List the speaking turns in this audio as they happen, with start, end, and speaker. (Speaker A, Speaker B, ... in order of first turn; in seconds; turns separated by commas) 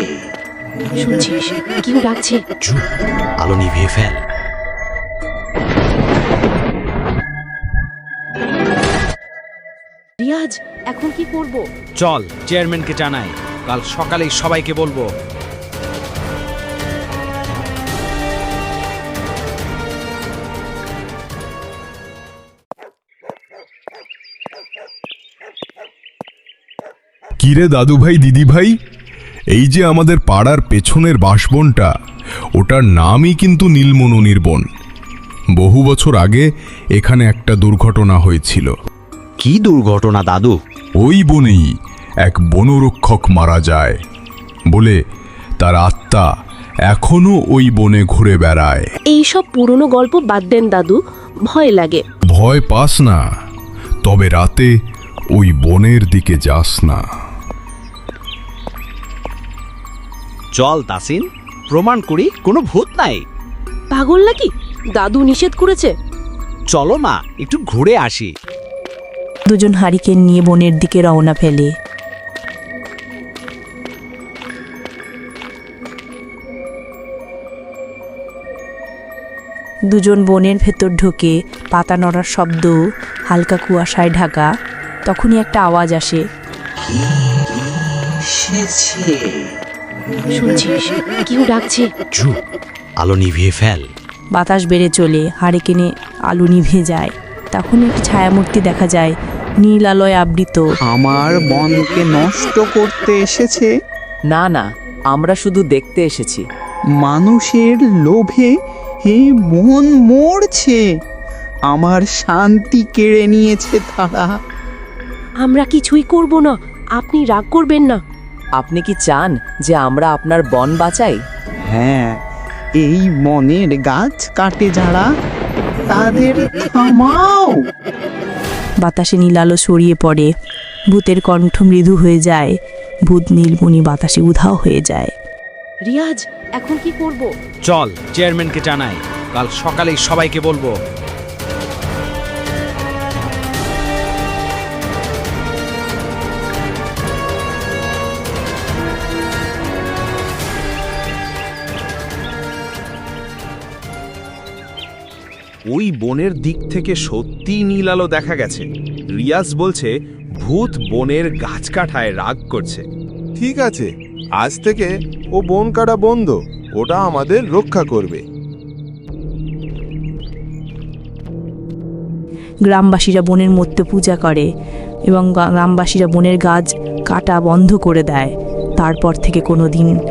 Speaker A: 1.0-2.4, Speaker B: 3.4-4.2, Speaker A: 10.2-11.6, Speaker C: 12.0-15.1, Speaker D: 27.4-28.7, Speaker D: 29.5-31.9, Speaker D: 32.6-34.7, Speaker D: 35.5-36.4, Speaker D: 37.0-38.7, Speaker B: 39.4-40.5, Speaker D: 41.0-41.6, Speaker D: 42.2-44.0, Speaker D: 45.6-46.2, Speaker D: 46.9-48.9, Speaker A: 49.1-52.0, Speaker D: 52.3-53.2, Speaker D: 54.0-54.7, Speaker D: 55.3-57.0, Speaker B: 60.5-63.2, Speaker A: 63.9-65.9, Speaker B: 66.7-68.3, Speaker E: 69.5-71.7, Speaker E: 79.9-82.8, Speaker E: 83.3-84.5, Speaker E: 85.0-86.2, Speaker A: 90.3-91.9, Speaker B: 93.0-93.9, Speaker E: 94.3-100.6, Speaker F: 100.9-103.7, Speaker G: 104.3-106.4, Speaker F: 107.0-108.5, Speaker F: 109.1-110.8, Speaker F: 111.7-114.3, Speaker A: 115.4-118.0, Speaker G: 118.6-121.2, Speaker F: 121.7-122.2, Speaker F: 122.8-125.0, Speaker F: 125.9-127.6, Speaker E: 128.8-130.3, Speaker E: 130.9-132.5, Speaker E: 133.1-135.1, Speaker A: 135.9-137.3, Speaker C: 137.6-140.7, Speaker H: 155.7-158.6, Speaker C: 157.3-158.1, Speaker H: 159.2-159.8, Speaker H: 160.4-162.8, Speaker I: 163.4-163.9, Speaker I: 164.4-164.9, Speaker I: 165.4-168.2, Speaker E: 172.7-174.5, Speaker E: 175.1-179.9